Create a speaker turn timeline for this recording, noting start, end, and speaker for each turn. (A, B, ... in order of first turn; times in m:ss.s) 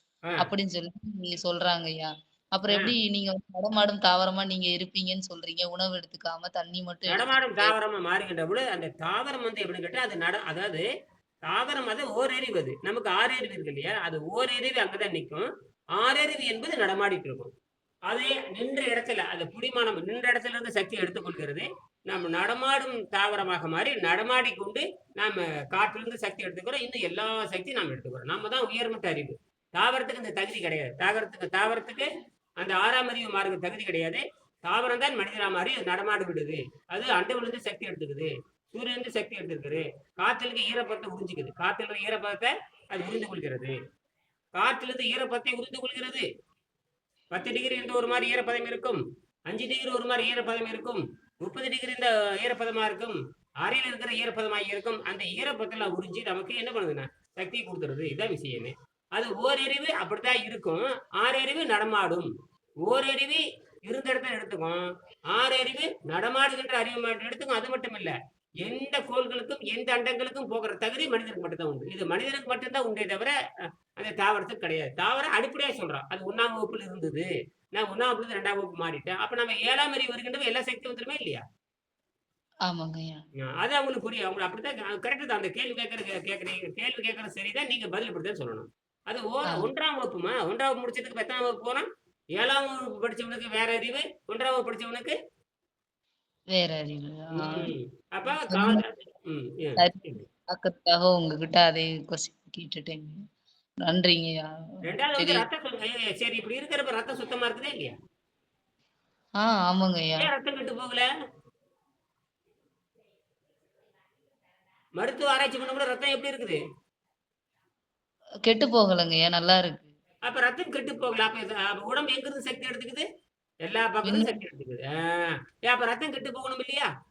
0:00.4-0:07.7 A
0:07.1-0:10.8 B
0:11.5-0:15.4 B
0:16.0-0:17.5 B
0:18.1-0:32.1 B
0:32.6-0:43.7 B
0:44.6-0:46.2 B
0:47.3-1:02.3 B
1:02.8-1:04.8 B
1:05.3-1:13.3 B
1:14.0-1:21.4 B
1:22.7-1:23.2 A
1:23.6-1:31.8 B
1:32.4-1:35.1 B
1:36.5-1:37.7 A
1:37.4-1:40.2 B
1:38.3-1:38.8 A
1:39.8-1:43.2 A
1:43.8-1:44.5 A
1:44.8-1:47.9 B
1:45.2-1:45.4 A
1:49.4-1:50.3 A
1:50.2-1:51.0 B
1:55.0-1:56.6 B
1:58.4-1:59.9 A
2:00.3-2:03.0 B
2:03.6-2:06.9 B
2:04.0-2:04.3 A